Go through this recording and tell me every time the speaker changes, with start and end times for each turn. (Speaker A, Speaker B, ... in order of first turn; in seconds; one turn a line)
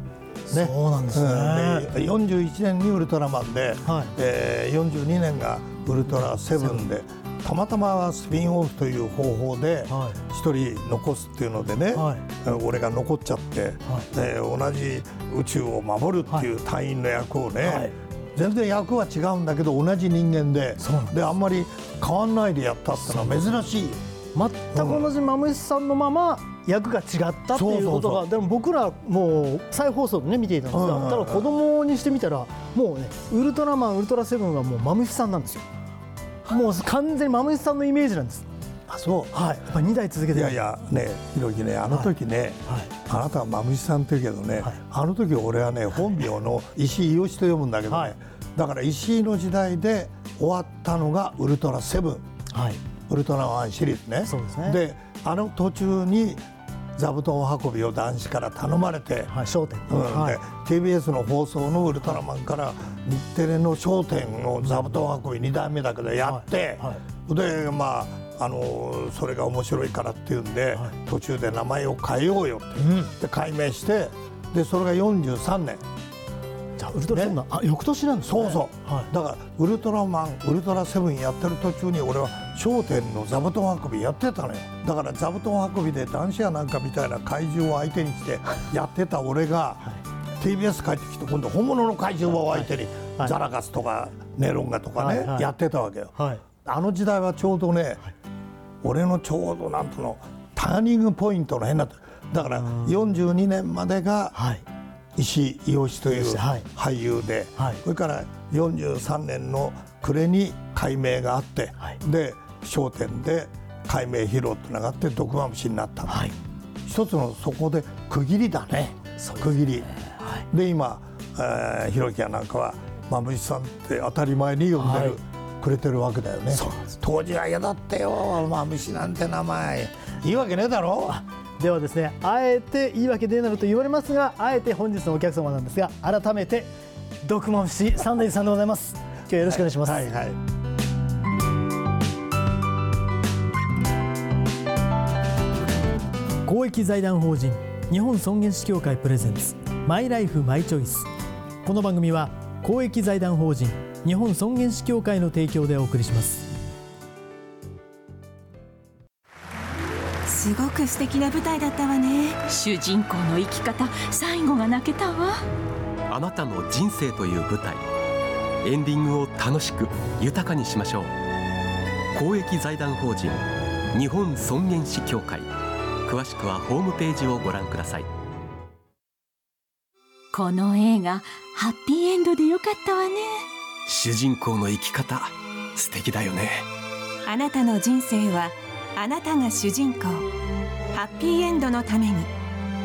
Speaker A: 0.5-1.9
Speaker B: 0.5-24.0
Speaker A: 3.8-4.1
Speaker A: 6.6-6.8
Speaker A: 9.9-10.2
Speaker A: 11.9-12.2
Speaker A: 17.6-17.9
Speaker A: 20.8-21.1
Speaker A: 24.3-35.7
Speaker B: 24.7-25.1
Speaker B: 27.5-28.2
Speaker B: 30.7-31.5
Speaker A: 36.5-38.5
Speaker B: 38.9-39.3
Speaker A: 39.3-40.6
Speaker B: 40.3-52.3
Speaker A: 42.6-42.9
Speaker A: 47.9-48.1
Speaker A: 52.5-52.8
Speaker B: 53.1-56.4
Speaker A: 54.2-54.8
Speaker B: 57.0-59.3
Speaker A: 59.3-60.4
Speaker B: 59.9-75.8
Speaker A: 66.2-67.0
Speaker A: 72.8-73.1
Speaker A: 76.8-79.1
Speaker B: 77.1-77.4
Speaker B: 78.2-89.8
Speaker B: 90.4-98.0
Speaker A: 92.5-93.3
Speaker A: 95.0-95.5
Speaker A: 96.2-96.4
Speaker B: 98.8-104.4
Speaker A: 102.4-102.9
Speaker A: 104.3-104.6
Speaker B: 105.2-116.3
Speaker A: 106.1-106.7
Speaker A: 116.0-116.3
Speaker B: 116.8-119.9
Speaker A: 119.2-120.4
Speaker B: 120.5-131.2
Speaker A: 124.8-125.2
Speaker A: 126.5-126.9
Speaker A: 131.1-136.7
Speaker A: 137.2-140.1
Speaker B: 139.4-140.4
Speaker A: 146.4-151.1
Speaker A: 151.6-156.5
Speaker C: 160.3-162.4
Speaker D: 162.5-165.4
Speaker E: 166.1-167.8
Speaker E: 168.6-171.1
Speaker E: 172.1-175.5
Speaker E: 176.1-178.1
Speaker D: 180.3-183.4
Speaker E: 183.9-186.7
Speaker C: 187.2-190.3
Speaker C: 190.9-192.3